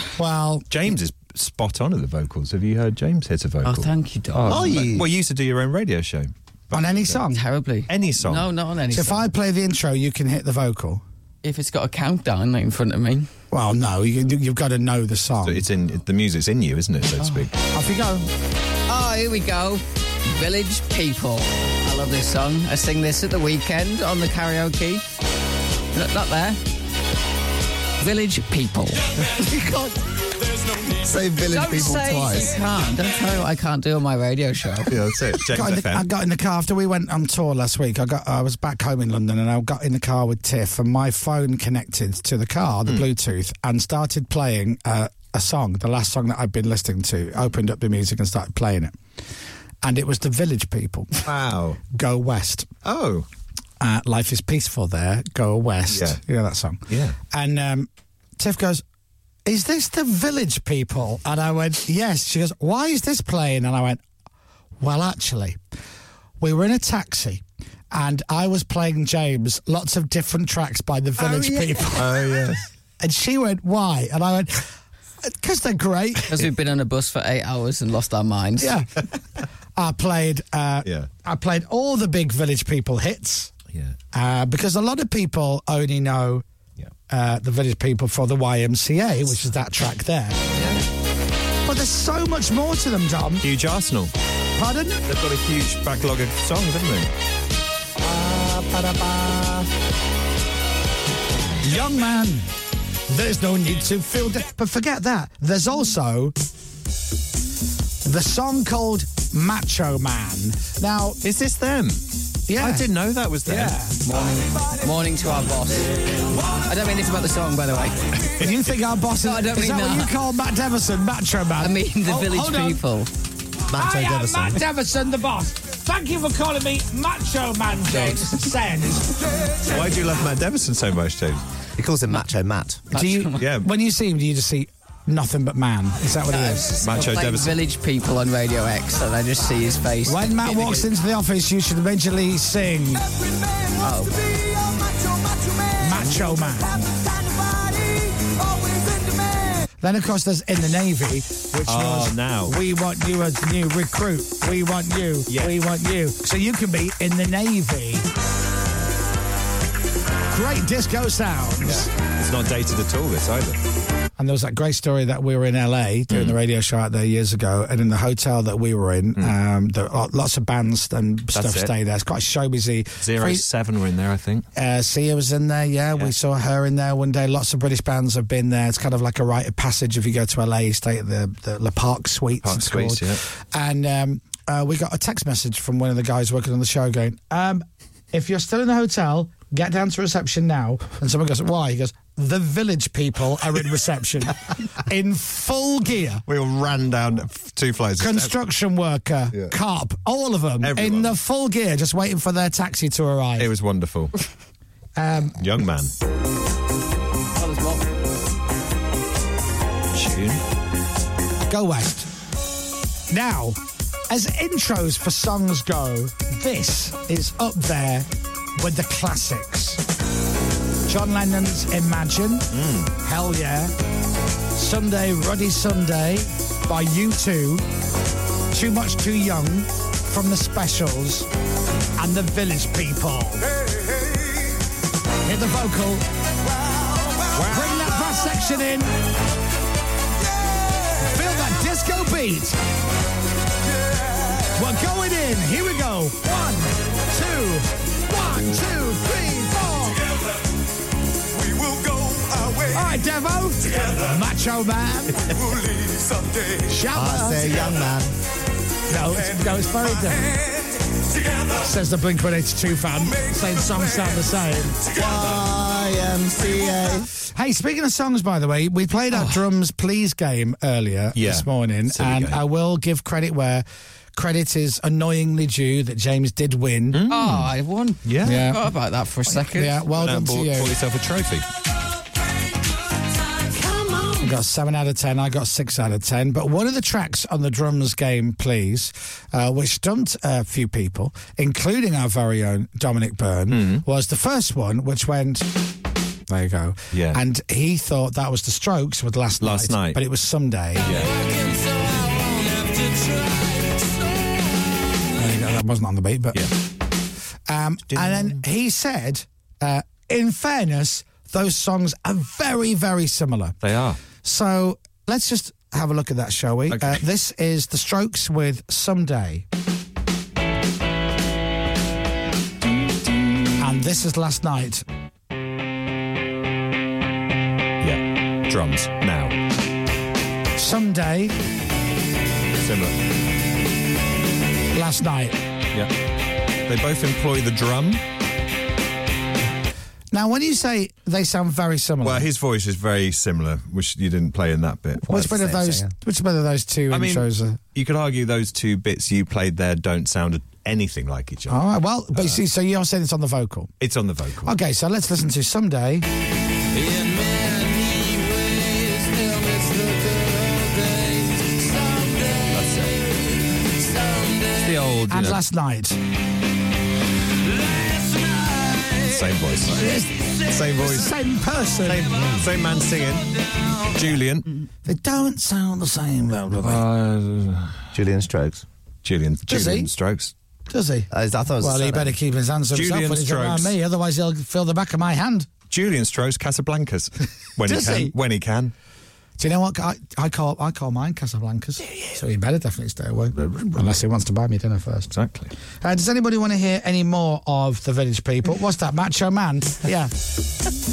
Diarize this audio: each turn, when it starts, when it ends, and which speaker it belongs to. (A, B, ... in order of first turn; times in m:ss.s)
0:00.2-0:00.6 A
0:00.7-0:07.2 B
0:03.6-0:04.8 C
0:04.5-0:05.1 D
0:06.7-0:07.4 A
0:07.3-0:09.3 C
0:07.9-0:08.5 B
0:08.9-0:11.0 A
0:11.4-0:13.3 C
0:13.5-0:15.6 A
0:15.4-0:17.5 B
0:17.7-0:18.3 A
0:18.9-0:25.0 C
0:25.9-0:26.6 C
0:28.0-0:29.1 C
0:29.3-0:30.0 D
0:30.9-0:32.5 D
0:31.4-0:34.9 C
0:34.9-0:36.0 B
0:35.5-0:49.0 A
0:49.8-0:51.1 A
0:51.3-0:51.8 B
0:51.9-0:52.7 A
0:52.8-0:53.3 B
0:53.8-0:58.8 A
0:55.9-0:56.2 B
0:56.9-0:57.2 B
0:59.4-1:04.0 A
1:04.8-1:05.6 A
1:06.4-1:12.2 A
1:11.4-1:12.6 B
1:13.0-1:14.6 A
1:15.2-1:16.4 A
1:16.3-1:18.7 C
1:18.6-1:18.9 A
1:19.8-1:23.5 A
1:24.1-1:26.4 A
1:27.1-1:30.4 A
1:30.6-1:30.8 B
1:31.6-1:33.4 A
1:33.4-1:34.1 B
1:34.6-1:35.0 A
1:35.1-1:37.1 B
1:38.0-1:39.7 A
1:41.6-1:42.5 A
1:43.1-1:46.3 A
1:48.0-1:51.2 A
1:51.2-1:52.0 B
1:52.5-1:52.9 A
1:52.5-1:53.8 B
1:53.5-1:55.9 C
1:53.5-1:53.9 A
1:56.4-1:58.1 C
1:58.4-2:02.8 A
1:59.2-2:00.1 C
2:01.6-2:03.1 C
2:03.7-2:04.6 D
2:03.7-2:09.1 A
2:09.7-2:11.4 B
2:11.8-2:12.8 D
2:12.9-2:16.8 A
2:12.9-2:13.4 C
2:13.4-2:13.7 B
2:16.3-2:20.9 C
2:16.8-2:17.6 B
2:20.1-2:23.1 A
2:23.8-2:24.2 C
2:25.8-2:26.8 A
2:29.8-2:38.1 A
2:31.7-2:32.6 B
2:35.3-2:35.6 B
2:40.3-2:41.9 A
2:41.6-2:43.6 B
2:44.2-2:53.4 A
2:46.1-2:46.4 B
2:51.4-2:51.7 B
2:53.0-2:54.4 B
2:54.6-3:16.2 A
3:02.4-3:03.2 B
3:16.3-3:18.3 B
3:18.0-3:23.5 A
3:20.6-3:21.1 B
3:23.4-3:24.1 B
3:25.0-3:25.4 A
3:25.4-3:25.9 B
3:27.4-3:27.9 C
3:29.9-3:30.4 B
3:31.5-3:32.1 A
3:33.1-3:33.6 A
3:34.1-3:39.8 A
3:40.9-3:42.5 A
3:42.5-3:42.9 B
3:43.0-3:43.7 A
3:44.6-3:47.6 A
3:48.5-3:51.3 A
3:52.0-3:53.4 A
3:55.2-3:56.1 A
3:57.4-3:58.9 A
4:01.0-4:02.6 A
4:04.5-4:10.0 A
4:12.6-4:15.3 A
4:16.6-4:17.7 A
4:16.9-4:18.1 D
4:18.9-4:20.3 A
4:21.6-4:24.9 A
4:24.9-4:27.1 D
4:27.3-4:37.0 A
4:31.1-4:32.4 B
4:36.9-4:37.5 B
4:37.1-4:39.8 C
4:38.0-4:38.4 B
4:38.2-4:38.6 A
4:39.4-4:40.7 A
4:39.9-4:41.4 B
4:44.2-4:55.4 A
4:53.5-4:53.8 B
4:56.3-5:01.0 A
4:56.9-4:57.2 B
4:59.4-5:00.0 B
5:00.8-5:01.1 B
5:05.1-5:06.4 A
5:07.5-5:13.6 A
5:07.9-5:08.4 B
5:13.6-5:14.0 B
5:14.2-5:19.4 A
5:16.7-5:17.0 B
5:23.6-5:24.8 A
5:27.8-5:29.4 B
5:30.6-5:31.4 A
5:32.6-5:33.0 B
5:34.7-5:35.4 A
5:36.7-5:38.0 B
5:40.1-5:42.3 A
5:42.0-5:45.2 B
5:45.1-5:47.6 A
5:45.1-5:45.9 D
5:46.9-5:51.6 B
5:51.5-5:53.7 A
5:52.1-5:52.4 B
5:53.8-5:54.6 B
5:54.4-5:56.1 A
6:02.4-6:03.0 B
6:04.5-6:05.4 B
6:05.1-6:06.0 A
6:08.9-6:11.1 B
6:09.7-6:12.3 A
6:11.8-6:14.5 B
6:14.8-6:16.8 A
6:16.6-6:17.8 B
6:17.9-6:18.6 D
6:19.0-6:20.3 B
6:19.5-6:19.9 A
6:20.7-6:25.5 A
6:21.1-6:22.1 D
6:22.7-6:23.7 B
6:25.7-6:28.7 B
6:27.6-6:28.1 A
6:29.4-6:35.1 A
6:35.1-6:35.5 B
6:35.8-6:40.1 A